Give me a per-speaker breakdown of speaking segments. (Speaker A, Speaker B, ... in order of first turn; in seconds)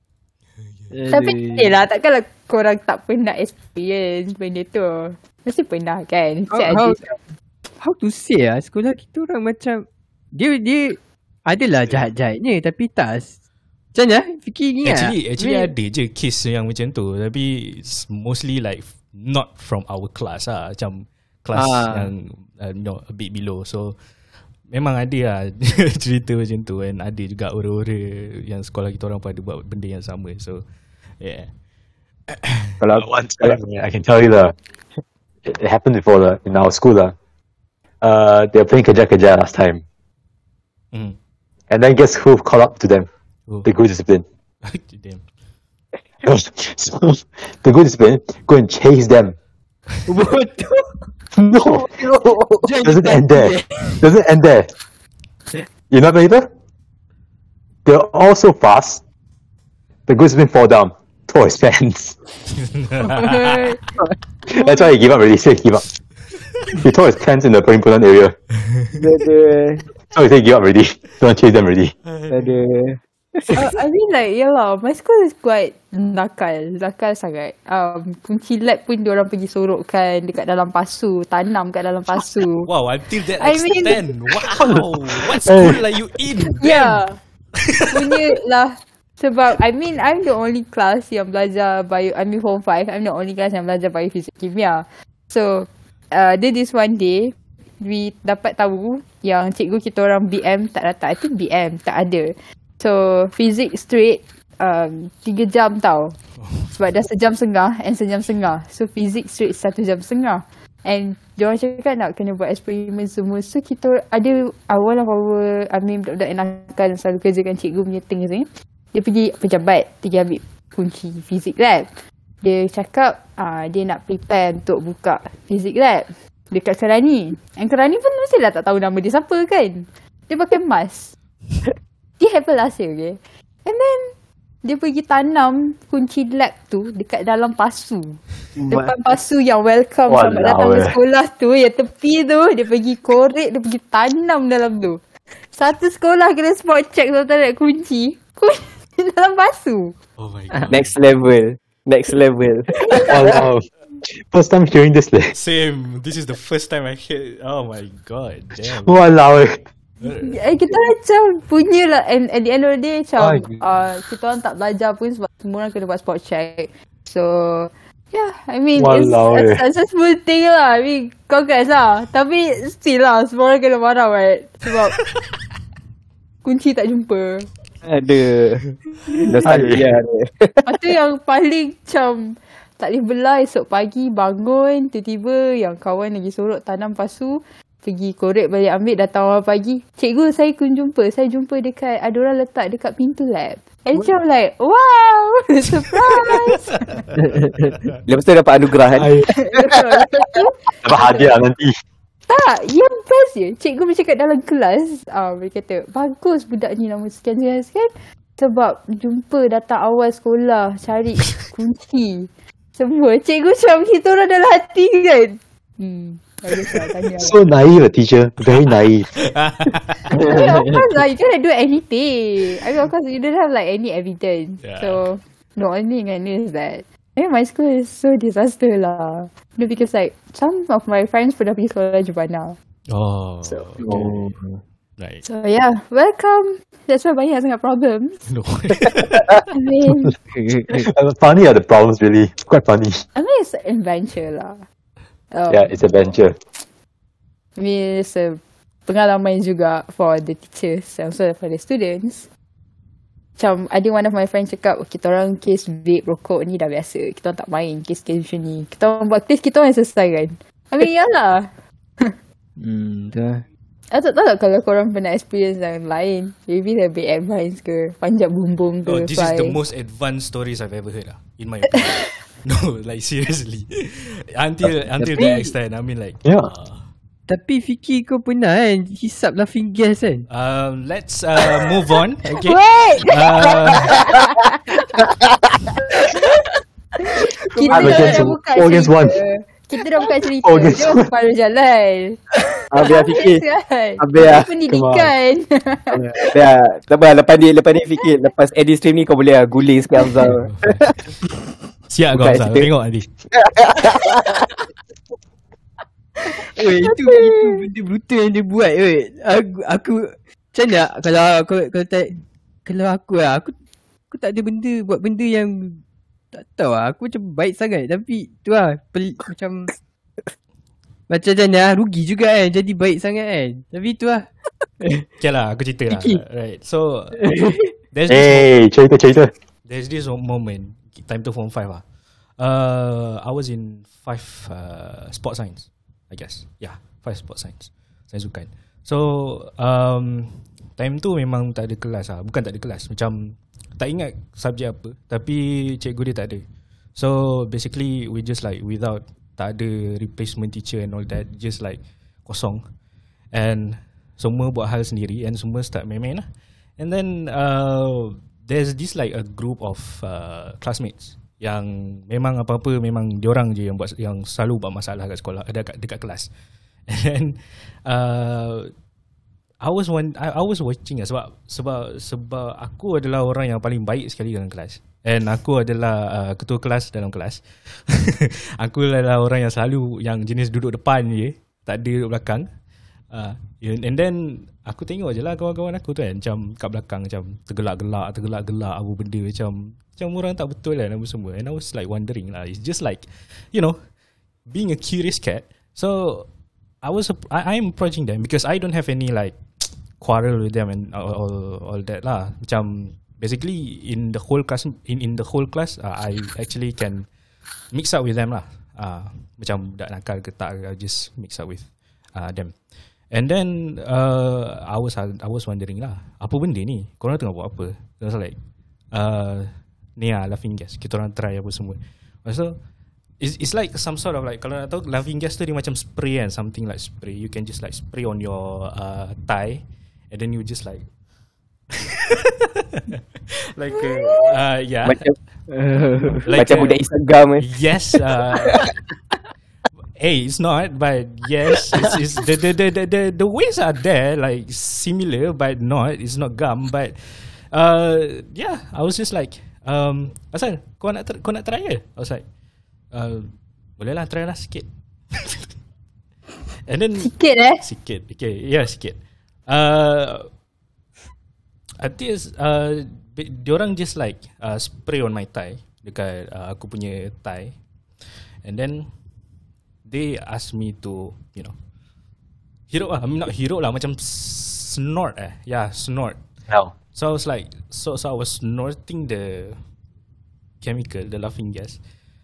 Speaker A: 0.6-0.9, 14.8-24.0, 24.7-30.6, 31.2-31.5, 32.3-32.8, 44.6-45.2, 62.5-63.8, 72.1-72.6, 82.7-87.0, 87.6-88.2, 106.4-106.7, 150.2-151.0, 155.3-159.0, 160.0-160.4, 219.1-220.1, 224.6-225.0, 232.9-234.3, 235.0-235.2, 238.3-239.4, 268.9-276.9, 280.3-283.9, 300.2-300.9, 301.9-303.1, 325.2-327.3, 327.9-328.5, 329.7-331.8, 332.4-346.4, 346.9-352.6, 353.3-356.3, 356.8-366.3, 366.9-368.7, 369.6-382.5, 383.1-393.8, 394.5-396.3, 396.8-407.1, 407.7-412.6, 413.1-418.4, 418.9-422.6, 423.2-430.9, 433.5-435.1, 436.2-436.8, 437.4-438.7, 440.0-452.2, 452.9-455.4, 456.6-460.3, 461.8-467.6, 468.4-468.9, 469.9-471.5, 472.7-476.2, 476.9-479.6, 480.6-481.8
Speaker B: 0.9-1.7, 6.5-7.2, 7.8-13.4, 13.9-15.7, 21.5-22.1, 50.1-50.9, 52.6-54.0, 197.2-197.7, 220.1-220.8, 262.6-263.4, 275.1-275.5, 277.3-280.3, 287.5-288.4, 306.2-313.5, 314.1-315.8, 316.3-319.7, 321.1-325.1, 325.9-326.2, 327.2-327.7, 435.5-436.3
Speaker C: 1.1-7.0, 63.2-63.8, 64.6-64.9, 73.5-82.7, 83.4-84.1, 86.6-87.2, 87.9-106.2, 106.7-131.1, 132.2-150.0, 152.9-153.5, 160.2-175.0, 176.4-177.5, 180.7-197.1, 199.3-201.3, 202.3-217.4, 220.2-232.6, 235.2-238.3, 239.5-240.2, 243.2-244.6, 245.3-246.2, 247.6-252.3, 253.4-262.2, 263.9-269.6, 271.9-272.1, 282.3-285.1, 285.8-296.0, 306.9-307.7, 457.0-457.6
Speaker D: 32.8-33.6, 52.0-52.7, 69.0-69.8, 72.3-73.7, 138.6-138.9, 150.7-153.4, 177.8-178.7, 179.2-180.7, 198.1-199.8, 292.7-293.4, 294.0-294.5, 296.3-301.0, 302.1-302.7, 303.3-304.4, 434.8-435.2, 436.3-437.5
Speaker E: 33.0-34.5, 35.5-37.1, 38.0-39.8, 41.7-43.1, 43.6-44.2, 46.2-49.4, 51.3-52.3, 52.9-54.7, 55.9-56.5, 57.9-59.0, 60.1-62.2, 64.5-65.9, 66.8-68.4, 70.1-71.9, 84.6-84.9, 85.4-85.8, 140.1-141.0, 153.1-155.3, 158.6-159.6, 163.2-163.6, 168.8-169.6, 179.4-179.8, 198.9-199.3, 200.8-201.7, 217.2-219.1, 233.5-234.1, 240.7-243.0, 245.5-246.4, 276.2-276.5, 287.7-289.2, 290.4-291.1, 294.7-295.1, 328.1-329.3